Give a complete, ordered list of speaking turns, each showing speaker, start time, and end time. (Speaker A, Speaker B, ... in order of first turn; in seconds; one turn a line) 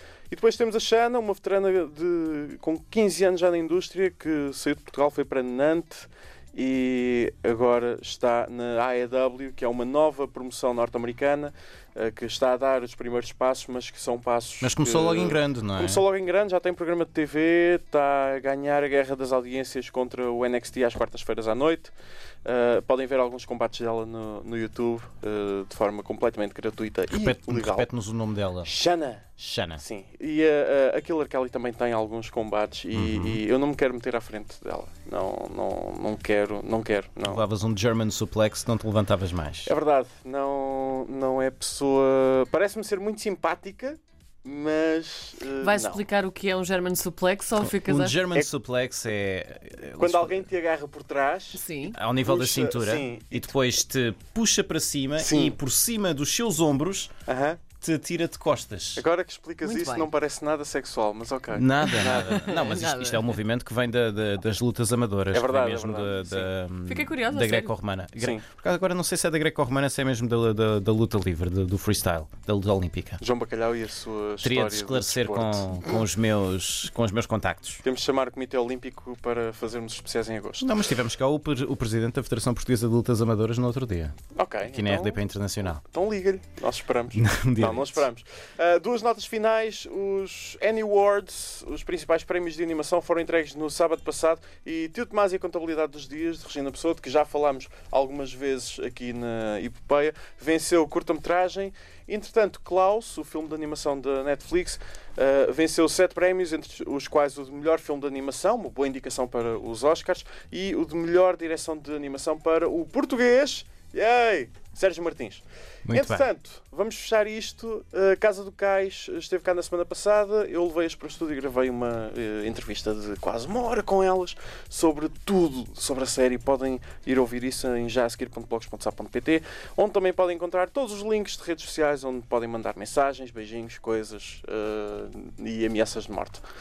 Speaker A: 0.3-21.9
Speaker B: 14.6-16.0
Speaker A: 22.4-27.9
Speaker B: 27.1-28.7
Speaker A: 28.6-37.4
Speaker B: 29.4-29.8
Speaker B: 32.9-33.4
Speaker B: 37.2-39.7
Speaker A: 39.6-46.0
Speaker C: 45.6-48.2
Speaker B: 47.6-50.5
Speaker A: 50.0-51.6
Speaker C: 51.5-52.0
Speaker B: 51.9-57.1
Speaker A: 52.2-53.5
Speaker A: 55.2-55.5
Speaker A: 57.3-57.6
Speaker B: 57.8-59.0
Speaker A: 59.0-62.5
Speaker C: 59.6-60.1
Speaker B: 61.5-73.2
Speaker C: 61.9-63.4
Speaker A: 65.3-66.5
Speaker C: 66.9-67.7
Speaker A: 68.2-68.4
Speaker A: 73.2-76.0
Speaker B: 74.4-77.8
Speaker A: 77.8-80.7
Speaker B: 80.6-84.2
Speaker A: 84.3-85.2
Speaker B: 84.7-85.8
Speaker A: 85.8-136.4
Speaker B: 87.1-88.0
Speaker B: 115.9-116.2